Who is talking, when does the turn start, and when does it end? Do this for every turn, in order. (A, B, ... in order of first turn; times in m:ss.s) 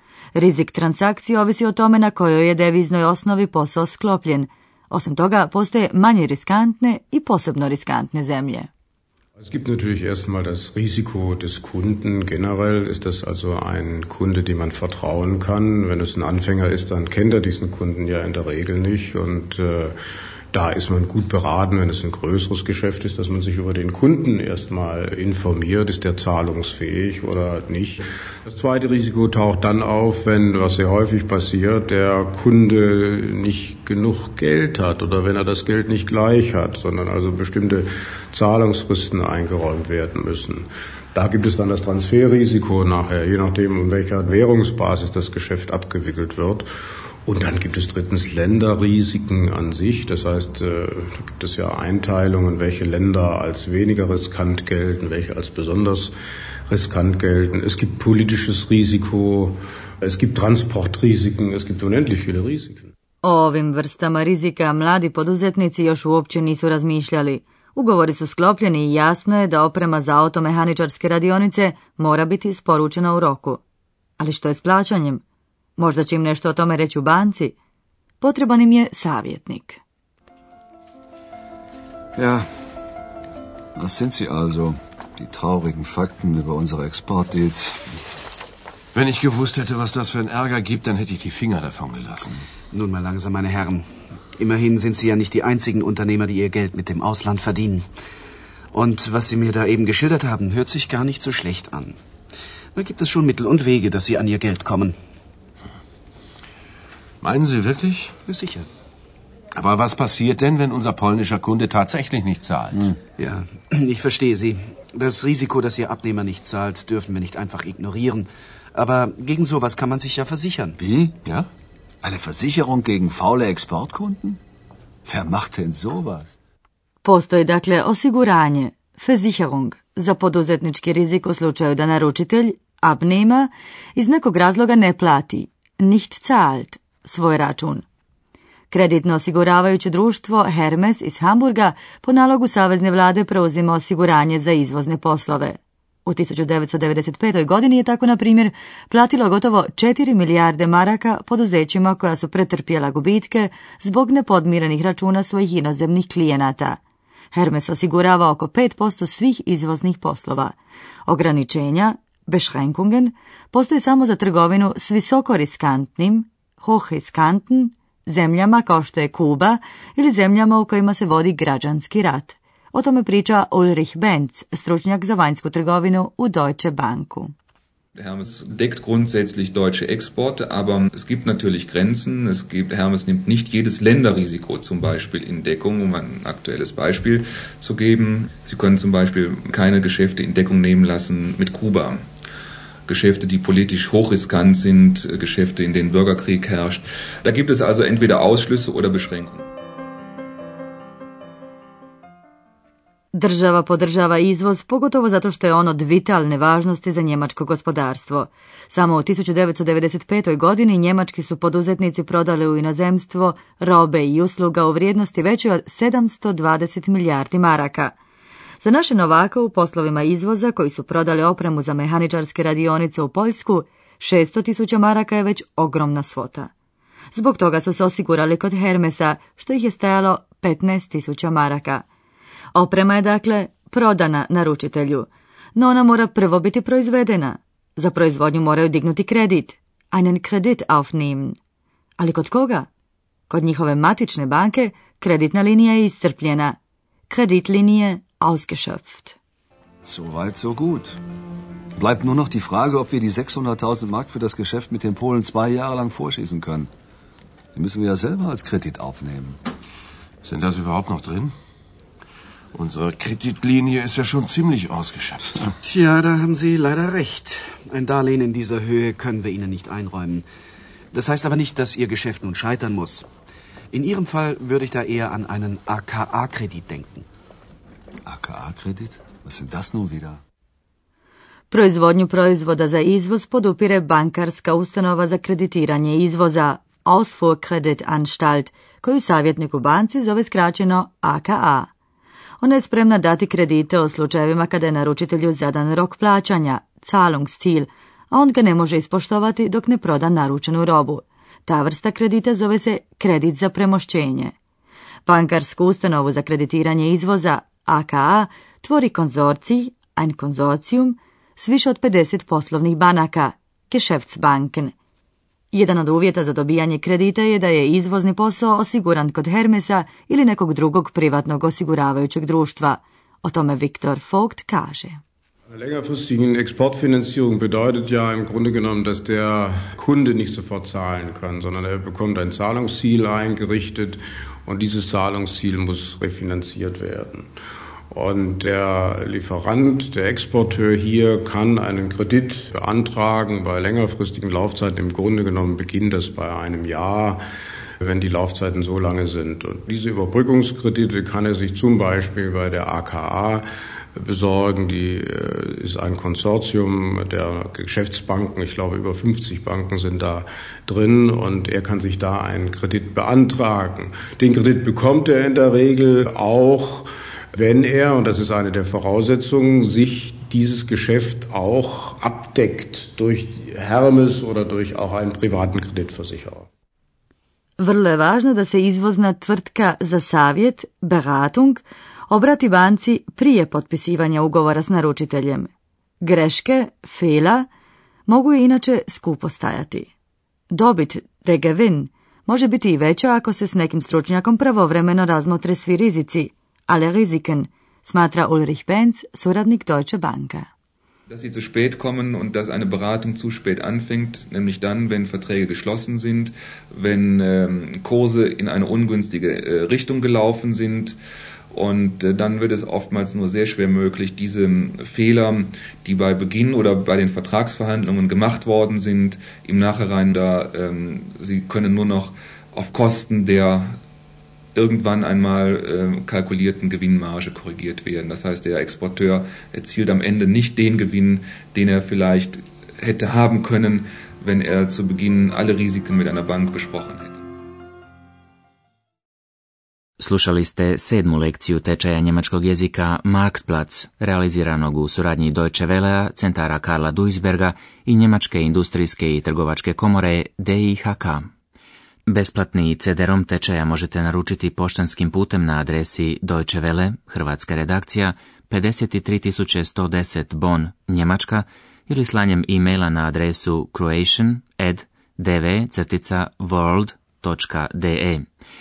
0:00.3-0:08.7 A
0:09.4-0:19.9 B
0:20.5-0:46.7 B
0:47.2-0:56.1 B
0:56.7-1:02.9 B
1:03.2-1:13.6 A
1:14.2-1:15.2 A
1:15.8-1:17.5 A
1:18.2-1:19.8 A
1:22.2-1:22.4 C
1:23.8-1:27.9 C
1:28.9-1:32.4 D
1:32.7-1:37.9 E
1:38.7-1:42.0 E
1:42.7-1:45.0 E
1:47.2-1:48.1 D
1:48.2-1:48.7 E
1:49.5-1:52.9 D
1:53.2-2:00.8 E
2:00.8-2:01.2 C
2:02.0-2:04.4 C
2:05.0-2:06.3 C
2:07.0-2:17.8 A
2:18.7-2:36.8 A
2:37.3-2:40.5 A
2:41.1-2:57.3 A
2:58.0-3:12.0 F
3:12.9-3:19.4 F
3:23.1-3:37.9 A
3:38.6-3:46.5 A
3:47.1-3:51.8 A
3:52.5-4:01.4 A
4:02.0-4:02.7 A
4:03.3-4:06.6 A
4:07.1-4:09.2 A
4:09.8-4:11.0 C
4:11.8-4:16.7 C
4:17.5-4:19.4 C
4:20.2-4:21.3 D
4:22.5-4:25.5 D
4:25.6-4:30.2 E
4:30.9-4:33.1 E
4:33.7-4:37.0 E
4:38.0-4:40.2 C
4:41.5-4:51.7 A
4:52.4-5:04.3 A
5:05.0-5:14.7 A
5:15.5-5:25.0 A
5:25.5-5:37.3 B
5:37.9-5:47.2 B
5:47.8-5:53.4 B
5:54.0-6:16.5 B
6:17.6-6:25.5 A
6:26.0-6:27.5 A
6:28.1-6:29.9 A
6:30.5-6:40.5 A
6:41.1-6:51.0 F
6:51.5-7:03.6 F
7:04.5-7:17.2 F
7:20.0-7:31.3 G
7:32.1-7:48.2 G